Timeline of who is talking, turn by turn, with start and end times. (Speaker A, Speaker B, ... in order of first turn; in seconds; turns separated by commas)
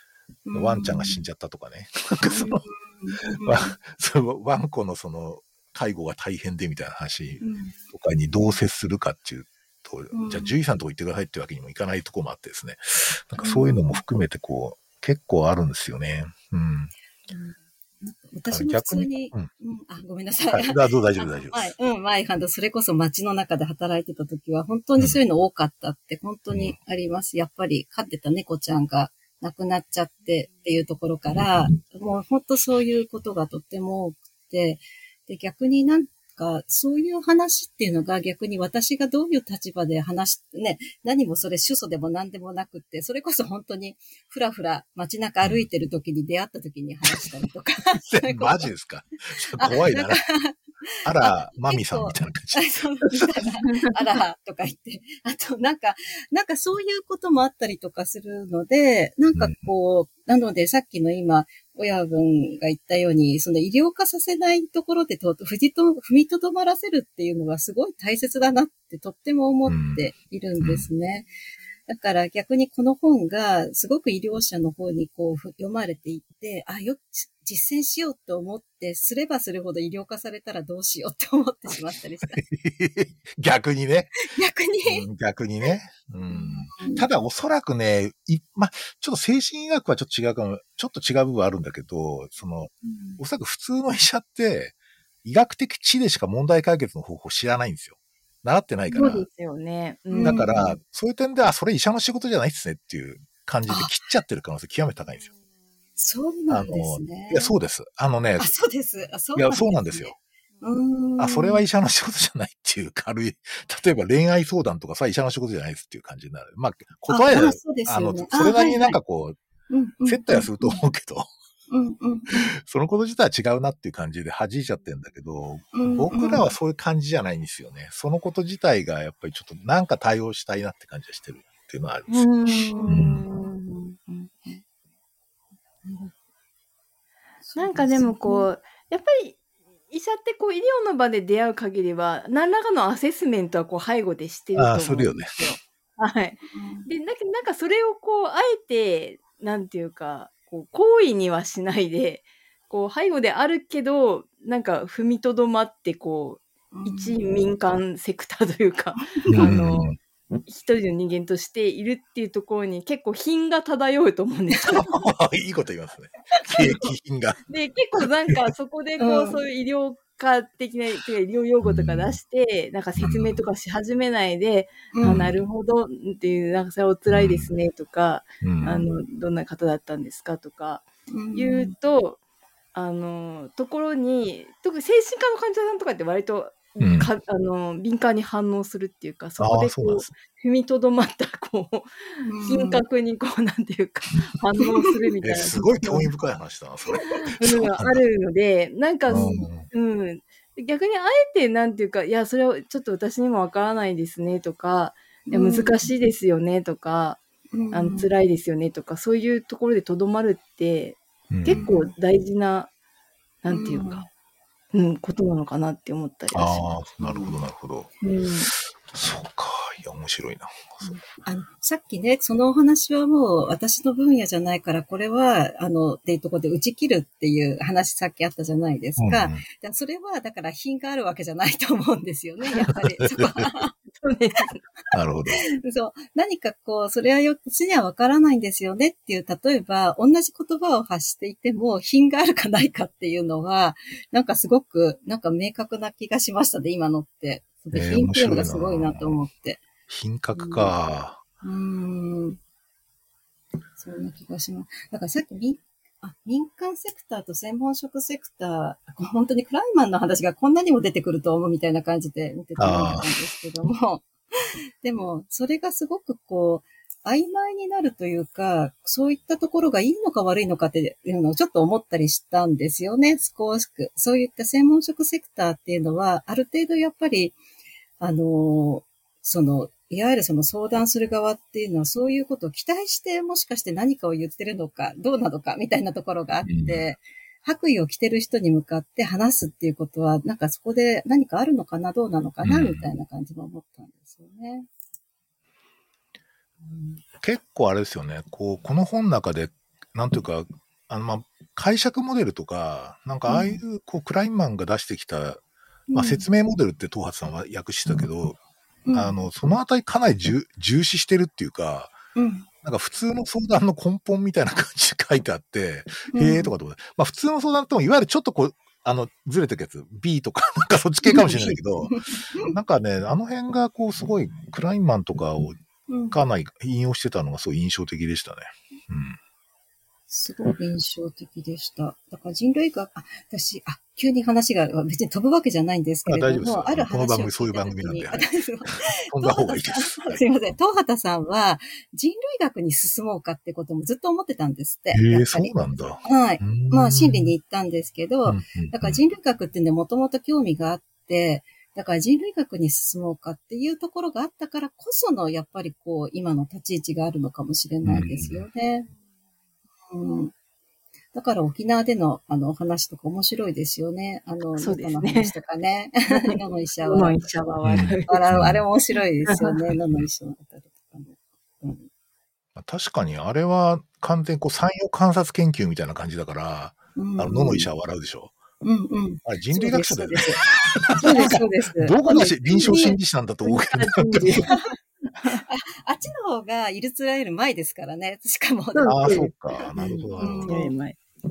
Speaker A: 0.5-1.2, Speaker B: 0.5-2.6, Speaker A: 2.2-3.8, Speaker B: 3.3-16.9, Speaker A: 7.4-7.8, Speaker A: 10.1-10.5, Speaker A: 13.4-14.0, Speaker A: 17.3-48.7, Speaker B: 18.5-19.5, Speaker B: 20.5-21.7, Speaker B: 26.5-26.8, Speaker B: 48.0-50.2, Speaker A: 49.6-71.3, Speaker B: 51.0-53.5, Speaker C: 53.7-54.0, Speaker B: 59.3-59.7, Speaker B: 69.7-70.0, Speaker B: 70.6-70.9, Speaker A: 71.8-82.4, Speaker B: 82.5-84.2, Speaker A: 84.3-85.0, Speaker B: 84.8-99.2, Speaker A: 86.3-87.0, Speaker A: 92.8-93.2, Speaker C: 98.9-100.4, Speaker A: 100.1-100.8, Speaker B: 100.2-105.3, Speaker A: 106.0-107.5, Speaker B: 106.5-108.5, Speaker A: 108.4-111.6, Speaker B: 109.3-110.1, Speaker B: 111.2-119.4, Speaker A: 117.1-119.0, Speaker A: 119.7-120.8, Speaker B: 120.0-121.3, Speaker A: 121.7-122.5, Speaker B: 122.3-132.2, Speaker A: 125.7-126.5, Speaker C: 132.1-134.6, Speaker A: 132.4-133.0, Speaker B: 132.9-133.2, Speaker A: 135.8-136.1, Speaker A: 137.4-138.5, Speaker C: 137.6-139.4, Speaker C: 139.9-159.9, Speaker B: 144.5-145.4, Speaker A: 146.5-146.9, Speaker A: 156.7-157.2, Speaker A: 159.2-159.6, Speaker B: 159.3-160.0, Speaker C: 160.5-165.0, Speaker B: 164.7-167.4, Speaker C: 167.5-182.2, Speaker A: 169.0-169.4, Speaker B: 171.6-172.2, Speaker B: 173.0-173.4, Speaker A: 174.9-175.3, Speaker B: 175.0-175.3, Speaker B: 177.1-177.5, Speaker B: 178.4-178.7, Speaker A: 178.6-178.9, Speaker A: 181.1-181.7, Speaker C: 182.7-196.1, Speaker B: 186.8-187.1, Speaker B: 189.4-190.1, Speaker A: 192.2-192.8, Speaker B: 195.2-197.9, Speaker C: 197.2-212.7, Speaker B: 199.1-199.7, Speaker A: 199.1-199.4, Speaker A: 205.3-205.9, Speaker A: 207.5-208.1, Speaker B: 211.3-211.7, Speaker A: 211.5-211.9, Speaker C: 213.4-214.1, Speaker A: 213.5-214.0, Speaker C: 214.7-216.7, Speaker B: 216.3-217.9, Speaker A: 217.0-217.3, Speaker C: 218.0-218.5, Speaker B: 218.6-220.9, Speaker A: 220.8-233.7, Speaker B: 229.0-229.4, Speaker C: 232.5-232.8, Speaker C: 233.9-234.6, Speaker B: 234.9-235.4, Speaker A: 235.4-249.6, Speaker B: 247.7-249.2, Speaker B: 249.9-251.2, Speaker A: 250.3-250.7, Speaker A: 251.4-252.4, Speaker A: 253.8-264.1, Speaker B: 262.6-263.2, Speaker A: 264.8-277.4, Speaker A: 278.0-294.7, Speaker B: 286.4-286.8, Speaker B: 292.4-292.9, Speaker A: 296.6-297.0, Speaker B: 297.2-305.4, Speaker A: 303.3-303.6, Speaker A: 305.9-306.2, Speaker B: 305.9-308.4, Speaker A: 308.9-309.2, Speaker B: 308.9-312.0, Speaker A: 312.1-312.5, Speaker B: 312.6-325.6, Speaker A: 316.1-316.5, Speaker A: 321.1-322.6, Speaker A: 325.9-326.2, Speaker B: 326.1-329.2, Speaker A: 330.1-358.9, Speaker B: 336.1-338.2, Speaker B: 339.1-340.2, Speaker B: 344.9-347.3, Speaker B: 348.2-349.0, Speaker B: 357.8-358.4, Speaker A: 359.9-360.3, Speaker A: 361.1-367.2, Speaker C: 364.6-365.3, Speaker C: 366.1-368.4, Speaker B: 367.6-368.6, Speaker A: 367.7-371.9, Speaker C: 369.2-369.6, Speaker B: 372.6-378.4, Speaker A: 376.9-377.7, Speaker A: 378.6-380.5, Speaker B: 379.2-384.5, Speaker A: 381.0-382.9, Speaker C: 382.1-384.6, Speaker A: 384.5-384.7, Speaker C: 385.1-385.4, Speaker A: 385.5-389.2, Speaker C: 388.7-389.3, Speaker B: 388.9-390.5, Speaker A: 389.8-390.7, Speaker C: 390.5-391.0